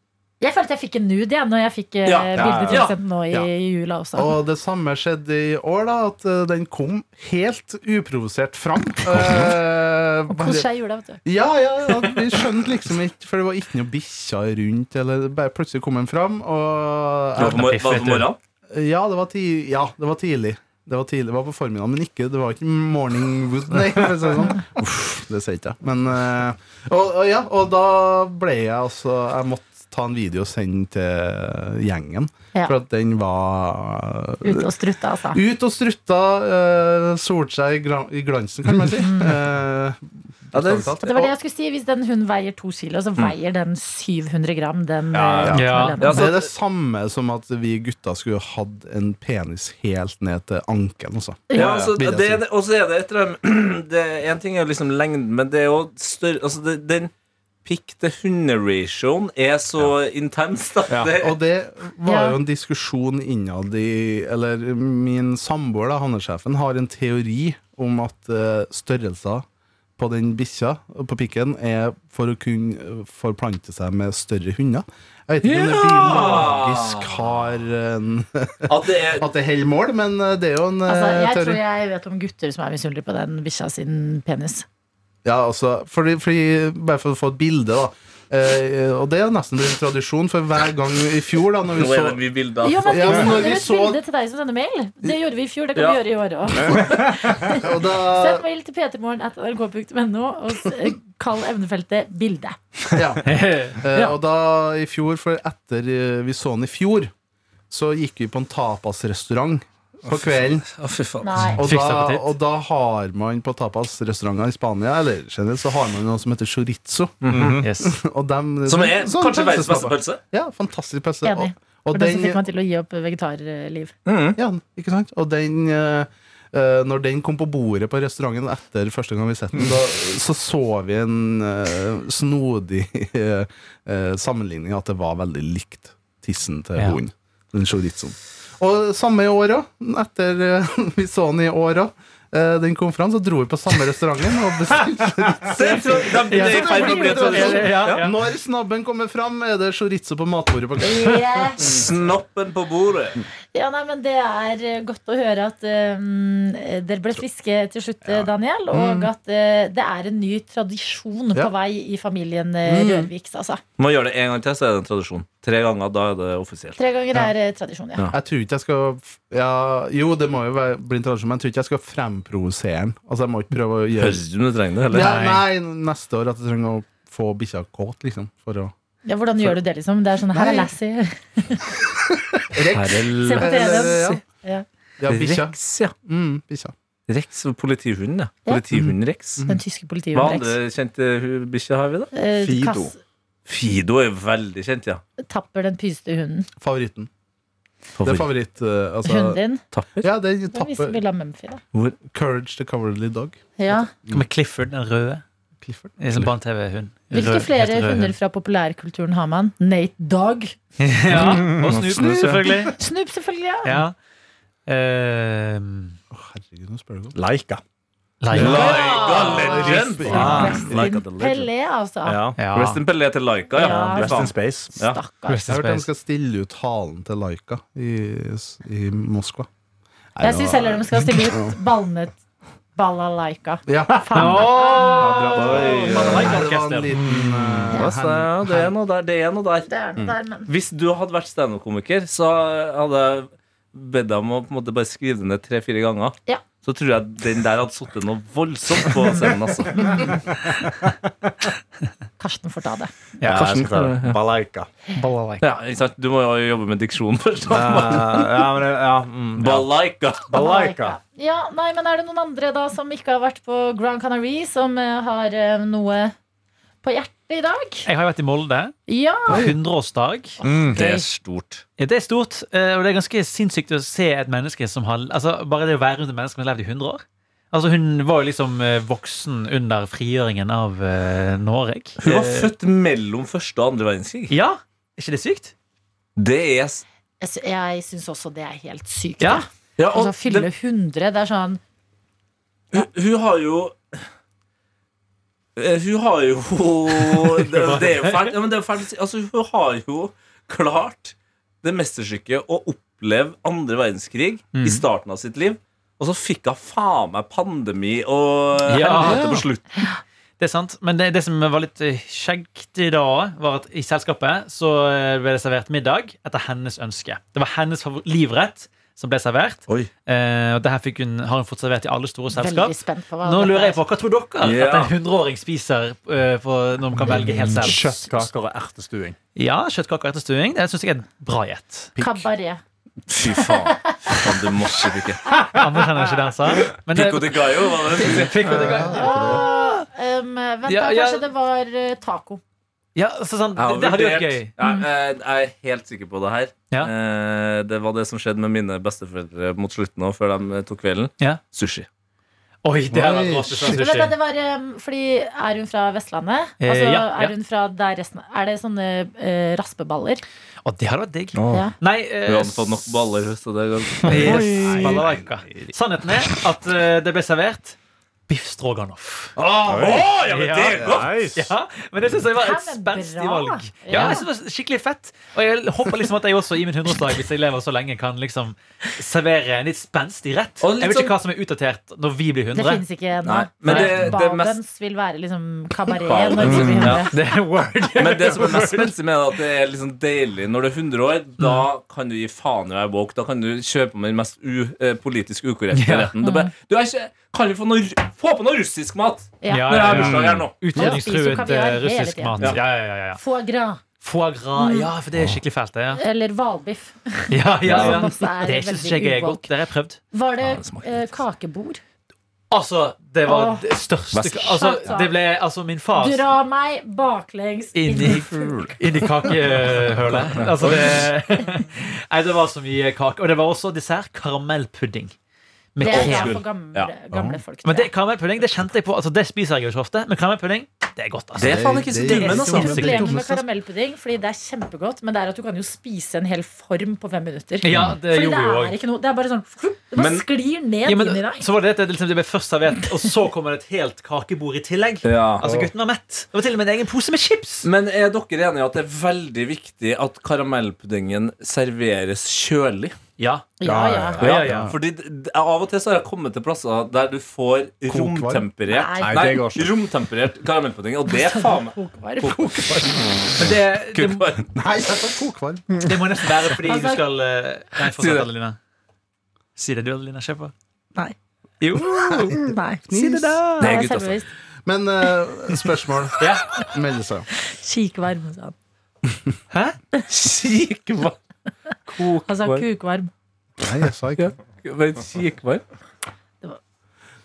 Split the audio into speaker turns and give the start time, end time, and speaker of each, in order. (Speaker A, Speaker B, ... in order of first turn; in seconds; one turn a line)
Speaker A: 0.4-4.3
Speaker B: 2.0-2.9
Speaker C: 2.4-2.8
Speaker D: 2.4-2.7
Speaker D: 4.1-10.7
Speaker A: 10.3-11.2
Speaker D: 11.2-17.9
Speaker B: 17.4-18.4
Speaker E: 17.4-18.3
Speaker D: 18.7-34.7
Speaker A: 34.4-35.4
Speaker D: 35.3-41.3
Speaker A: 39.0-39.4
Speaker B: 40.5-41.1
Speaker A: 41.0-46.3
Speaker B: 45.1-46.4
Speaker D: 45.4-52.4
Speaker E: 45.5-46.0
Speaker B: 51.5-57.1
Speaker B: 57.6-61.4
Speaker D: 61.2-69.4
Speaker A: 62.0-62.4
Speaker D: 70.0-81.6
Speaker B: 75.4-77.2
Speaker B: 78.7-79.3
Speaker A: 80.8-84.7
Speaker D: 85.2-92.2
Speaker B: 91.7-93.4
Speaker A: 92.6-102.6
Speaker D: 92.8-94.0
Speaker D: 97.5-98.4
Speaker D: 102.9-107.1
Speaker E: 103.2-103.8
Speaker D: 107.7-110.7
Speaker B: 110.1-111.5
Speaker A: 111.2-111.6
Speaker E: 111.6-112.3
Speaker D: 111.6-122.4
Speaker B: 117.2-117.6
Speaker C: 117.3-117.7
Speaker E: 117.6-118.0
Speaker B: 118.7-120.2
Speaker A: 121.2-123.9
Speaker B: 124.0-124.4
Speaker D: 124.3-151.8
Speaker B: 145.5-148.0
Speaker E: 146.3-148.2
Speaker A: 146.4-147.2
Speaker A: 150.8-151.7
Speaker B: 151.6-153.2
Speaker A: 153.5-163.6
Speaker D: 158.1-159.1
Speaker D: 162.7-163.1
Speaker B: 163.8-166.8
Speaker A: 166.8-168.1
Speaker D: 168.1-174.2
Speaker B: 174.0-175.2
Speaker D: 174.9-178.7
Speaker E: 174.9-175.4
Speaker A: 179.1-181.7
Speaker D: 180.3-180.7
Speaker D: 182.1-184.2
Speaker B: 182.7-184.2
Speaker A: 183.1-184.6
Speaker D: 185.0-186.7
Speaker B: 185.1-185.9
Speaker B: 187.1-189.4
Speaker D: 188.7-189.6
Speaker A: 189.4-190.6
Speaker B: 190.1-192.1
Speaker A: 192.1-193.0
Speaker C: 192.4-192.9
Speaker B: 193.5-195.0
Speaker A: 195.2-196.5
Speaker D: 196.6-197.1
Speaker B: 198.0-198.3
Speaker D: 198.0-199.4
Speaker A: 199.0-199.6
Speaker B: 199.7-200.1
Speaker D: 200.0-201.0
Speaker A: 200.5-201.6
Speaker D: 202.0-203.4
Speaker A: 203.6-203.9
Speaker E: 204.1-205.2
Speaker D: 205.6-206.3
Speaker E: 206.0-208.2
Speaker A: 207.1-210.6
Speaker E: 210.8-212.8
Speaker C: 211.1-212.4
Speaker B: 211.4-212.3
Speaker D: 211.9-212.4
Speaker A: 212.7-213.8
Speaker E: 213.6-213.9
Speaker E: 214.7-215.9
Speaker D: 216.1-217.2
Speaker C: 217.1-217.6
Speaker E: 218.2-220.6
Speaker B: 218.3-221.4
Speaker C: 218.3-221.3
Speaker A: 218.5-222.2
Speaker D: 218.7-220.6
Speaker C: 222.1-222.4
Speaker B: 222.2-225.0
Speaker E: 222.4-222.8
Speaker A: 223.5-225.5
Speaker C: 223.6-224.7
Speaker E: 225.3-225.9
Speaker D: 225.5-229.5
Speaker D: 230.2-231.6
Speaker A: 230.2-232.2
Speaker A: 232.8-235.8
Speaker D: 233.7-238.7
Speaker E: 234.1-237.8
Speaker B: 235.3-236.4
Speaker B: 237.8-239.7
Speaker A: 239.7-240.5
Speaker B: 240.5-250.2
Speaker A: 249.7-250.2
Speaker C: 250.1-250.9
Speaker A: 252.2-252.9
Speaker E: 253.2-253.6
Speaker C: 253.2-254.7
Speaker B: 253.3-254.2
Speaker E: 254.9-255.4
Speaker B: 255.4-258.4
Speaker C: 257.5-259.7
Speaker B: 259.4-260.3
Speaker C: 260.3-261.0
Speaker A: 260.3-266.1
Speaker A: 266.8-267.9
Speaker E: 267.9-268.7
Speaker A: 268.9-269.5
Speaker E: 269.3-271.0
Speaker C: 270.4-270.8
Speaker B: 270.7-271.6
Speaker E: 271.8-282.5
Speaker B: 282.0-284.3
Speaker E: 284.3-285.5
Speaker B: 286.2-286.8
Speaker A: 287.2-291.6
Speaker E: 289.2-289.4
Speaker B: 289.8-290.5
Speaker B: 292.7-294.0
Speaker B: 295.6-309.7
Speaker E: 297.1-298.4
Speaker E: 304.5-304.8
Speaker E: 308.6-309.4
Speaker E: 310.4-328.2
Speaker A: 322.3-323.8
Speaker B: 324.4-324.9
Speaker C: 327.0-329.2
Speaker E: 329.4-331.9
Speaker C: 331.9-332.2
Speaker A: 332.0-332.6
Speaker B: 333.1-335.2
Speaker A: 333.3-334.3
Speaker A: 335.2-336.1
Speaker E: 335.2-339.8
Speaker B: 336.6-338.6
Speaker D: 338.0-339.5
Speaker A: 338.7-342.4
Speaker E: 340.7-341.2
Speaker E: 342.9-344.5
Speaker B: 343.6-351.9
Speaker E: 352.6-354.1
Speaker D: 352.9-353.8
Speaker A: 353.6-360.2
Speaker E: 356.6-357.3
Speaker E: 360.6-362.8
Speaker B: 361.4-361.7
Speaker B: 362.2-364.7
Speaker E: 364.1-367.8
Speaker C: 364.1-365.1
Speaker D: 364.2-365.3
Speaker E: 368.3-369.3
Speaker B: 369.4-371.1
Speaker D: 369.7-370.0
Speaker C: 369.7-370.1
Speaker E: 370.1-382.8
Speaker C: 370.8-371.5
Speaker A: 372.3-374.2
Speaker B: 373.9-374.1
Speaker B: 380.6-381.1
Speaker A: 382.5-387.1
Speaker B: 383.2-384.6
Speaker E: 383.6-384.1
Speaker B: 386.0-387.1
Speaker E: 386.5-388.9
Speaker C: 386.6-388.6
Speaker B: 388.0-400.6
Speaker E: 395.7-396.1
Speaker A: 396.2-396.5
Speaker A: 399.4-400.0
Speaker E: 399.5-403.2
Speaker C: 399.9-400.5
Speaker A: 400.7-402.6
Speaker A: 403.1-403.8
Speaker E: 404.0-406.0
Speaker A: 404.6-404.9
Speaker A: 405.9-409.5
Speaker E: 407.3-410.0
Speaker B: 407.6-408.0
Speaker A: 410.1-411.8
Speaker B: 410.4-411.1
Speaker E: 412.5-416.2
Speaker A: 413.2-413.7
Speaker B: 414.1-414.9
Speaker A: 414.4-415.1
Speaker A: 415.9-418.6
Speaker E: 417.7-425.1
Speaker B: 418.3-418.7
Speaker B: 420.1-421.1
Speaker E: 425.7-426.4
Speaker A: 425.8-427.9
Speaker B: 425.8-426.9
Speaker D: 427.1-427.4
Speaker E: 427.6-433.1
Speaker B: 431.4-433.0
Speaker D: 431.4-433.4
Speaker A: 432.4-441.5
Speaker E: 437.6-438.8
Speaker B: 439.9-440.2
Speaker E: 440.8-447.7
Speaker B: 445.0-445.5
Speaker B: 447.6-453.0
Speaker E: 453.2-453.6
Speaker A: 453.6-454.2
Speaker C: 453.6-454.4
Speaker E: 454.2-454.7
Speaker B: 454.2-463.0
Speaker D: 454.4-454.8
Speaker D: 457.9-458.5
Speaker A: 458.7-459.3
Speaker C: 459.0-459.7
Speaker A: 461.1-462.8
Speaker E: 463.4-464.3
Speaker B: 463.7-464.5
Speaker D: 464.5-465.9
Speaker E: 465.8-468.6
Speaker A: 466.6-467.0
Speaker B: 467.9-468.2
Speaker E: 469.6-470.5
Speaker E: 471.6-473.7
Speaker A: 472.3-474.3
Speaker D: 472.9-473.7
Speaker B: 473.6-474.2
Speaker D: 474.6-477.3
Speaker E: 476.2-476.6
Speaker A: 477.4-478.5
Speaker E: 479.5-479.8
Speaker B: 480.1-481.1
Speaker B: 481.9-482.6
Speaker A: 482.2-483.1
Speaker D: 483.6-484.3
Speaker B: 484.2-485.6